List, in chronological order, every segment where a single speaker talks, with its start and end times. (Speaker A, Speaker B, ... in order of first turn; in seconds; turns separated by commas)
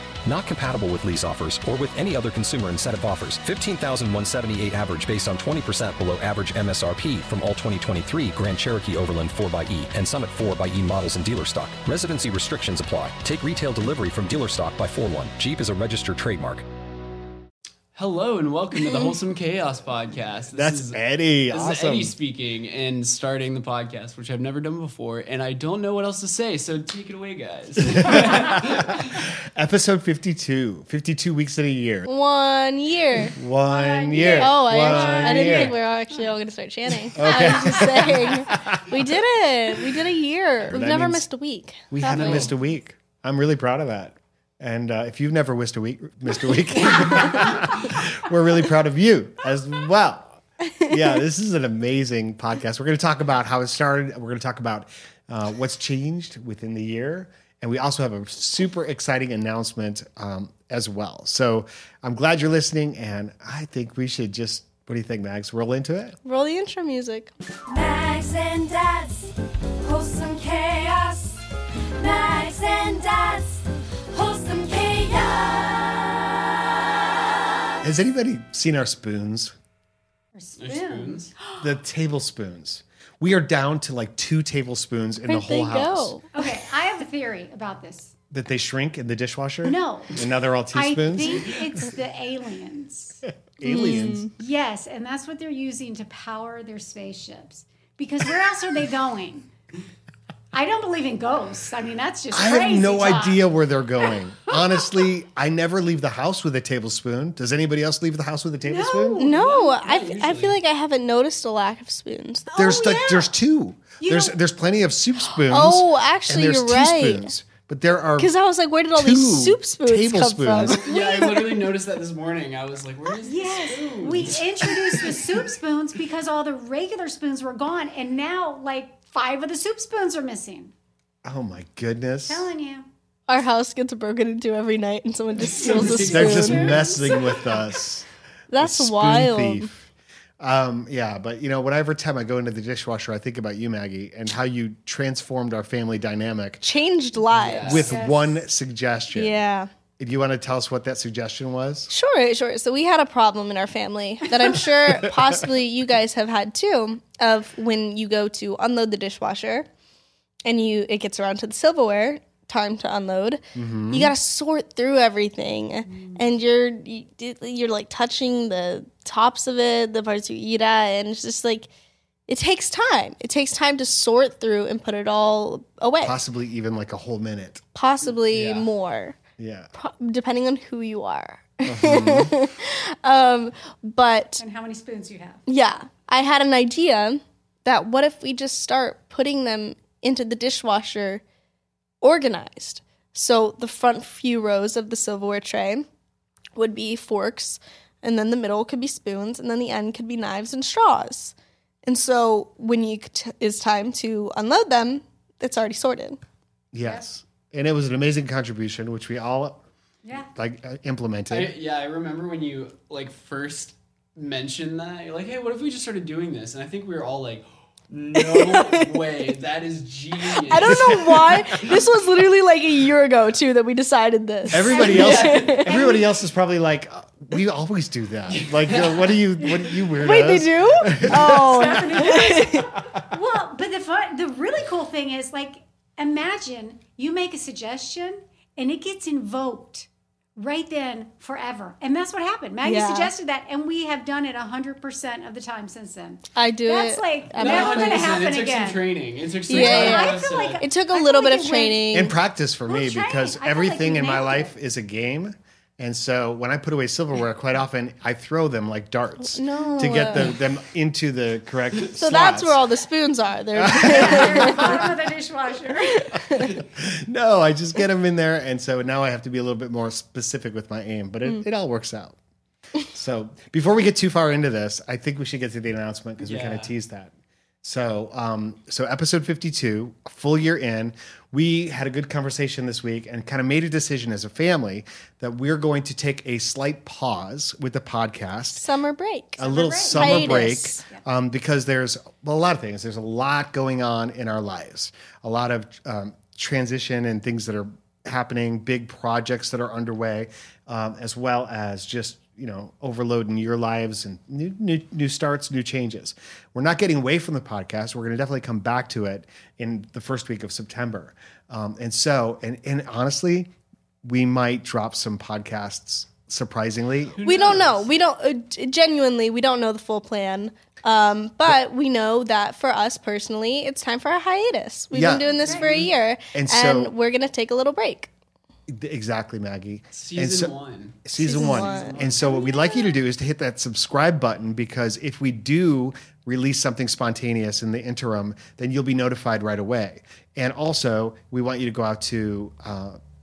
Speaker A: 0.2-16.6, Speaker B: 17.9-21.0, Speaker C: 20.5-22.1, Speaker B: 21.5-29.2, Speaker C: 27.9-32.1, Speaker D: 32.0-33.3, Speaker C: 33.4-35.8, Speaker E: 33.7-36.3, Speaker D: 34.2-42.5, Speaker C: 37.1-39.2, Speaker C: 40.7-41.2, Speaker C: 41.9-66.2, Speaker B: 42.0-42.5, Speaker D: 46.9-47.5, Speaker D: 66.2-67.3, Speaker F: 67.7-71.4, Speaker F: 72.0-77.4, Speaker C: 77.8-79.5, Speaker E: 80.3-81.7, Speaker B: 80.6-81.3, Speaker C: 81.6-86.2, Speaker D: 85.3-86.3, Speaker E: 86.3-88.1, Speaker C: 88.3-91.9, Speaker E: 89.6-90.2, Speaker E: 90.7-99.5, Speaker C: 93.6-94.3, Speaker D: 93.6-94.3, Speaker E: 100.5-103.5, Speaker C: 102.3-109.2, Speaker E: 104.5-105.0, Speaker E: 108.6-109.6, Speaker D: 109.2-112.8, Speaker B: 109.3-110.6, Speaker E: 112.5-113.3, Speaker C: 112.5-118.3, Speaker E: 114.0-114.3, Speaker D: 115.4-117.3, Speaker D: 118.2-121.6, Speaker C: 118.9-120.8, Speaker B: 120.5-124.4, Speaker E: 123.2-130.7, Speaker C: 131.2-132.5, Speaker E: 132.2-132.9, Speaker D: 133.3-137.2, Speaker B: 135.4-137.1, Speaker E: 135.4-137.3, Speaker C: 136.0-146.6, Speaker D: 138.5-139.7, Speaker D: 146.6-147.9, Speaker B: 147.3-147.9, Speaker C: 147.6-149.4, Speaker E: 147.7-148.4, Speaker D: 149.1-149.7, Speaker C: 150.0-151.9, Speaker D: 151.9-159.7, Speaker C: 154.9-155.5, Speaker D: 160.4-171.7, Speaker C: 163.5-164.1, Speaker E: 165.9-166.2, Speaker D: 172.3-176.2, Speaker C: 176.0-177.6, Speaker D: 177.7-179.2, Speaker B: 178.0-178.7, Speaker C: 179.4-179.7, Speaker D: 179.8-184.4, Speaker C: 181.6-182.3, Speaker E: 184.4-185.4, Speaker D: 185.5-191.2, Speaker D: 192.0-195.8, Speaker D: 196.6-206.2, Speaker C: 206.7-211.5, Speaker E: 210.0-210.3, Speaker B: 211.3-221.9, Speaker D: 218.1-219.2, Speaker D: 220.2-225.8, Speaker C: 220.6-221.6, Speaker C: 224.5-232.1, Speaker B: 224.7-225.6, Speaker E: 225.6-226.1, Speaker B: 228.3-229.9, Speaker D: 230.0-232.7, Speaker E: 231.1-248.8, Speaker D: 242.6-243.1, Speaker D: 246.3-248.2, Speaker B: 247.4-250.6, Speaker D: 249.5-252.1, Speaker E: 249.5-251.9, Speaker C: 251.9-262.6, Speaker E: 252.7-254.5, Speaker D: 259.3-260.3, Speaker D: 261.9-264.8, Speaker C: 263.5-264.9, Speaker E: 263.9-266.2, Speaker D: 266.0-266.6, Speaker C: 266.4-272.2, Speaker C: 272.9-288.7, Speaker B: 276.2-276.7, Speaker D: 288.5-289.4, Speaker C: 289.4-313.5, Speaker E: 289.4-291.0, Speaker D: 289.9-290.8, Speaker C: 314.0-317.6, Speaker B: 317.1-317.9, Speaker D: 317.2-328.1, Speaker C: 324.9-325.6, Speaker E: 325.4-325.7, Speaker B: 325.4-325.9, Speaker C: 326.3-326.9, Speaker C: 328.7-330.5, Speaker B: 329.9-332.3, Speaker C: 331.0-343.0, Speaker D: 331.2-332.0, Speaker E: 332.2-332.9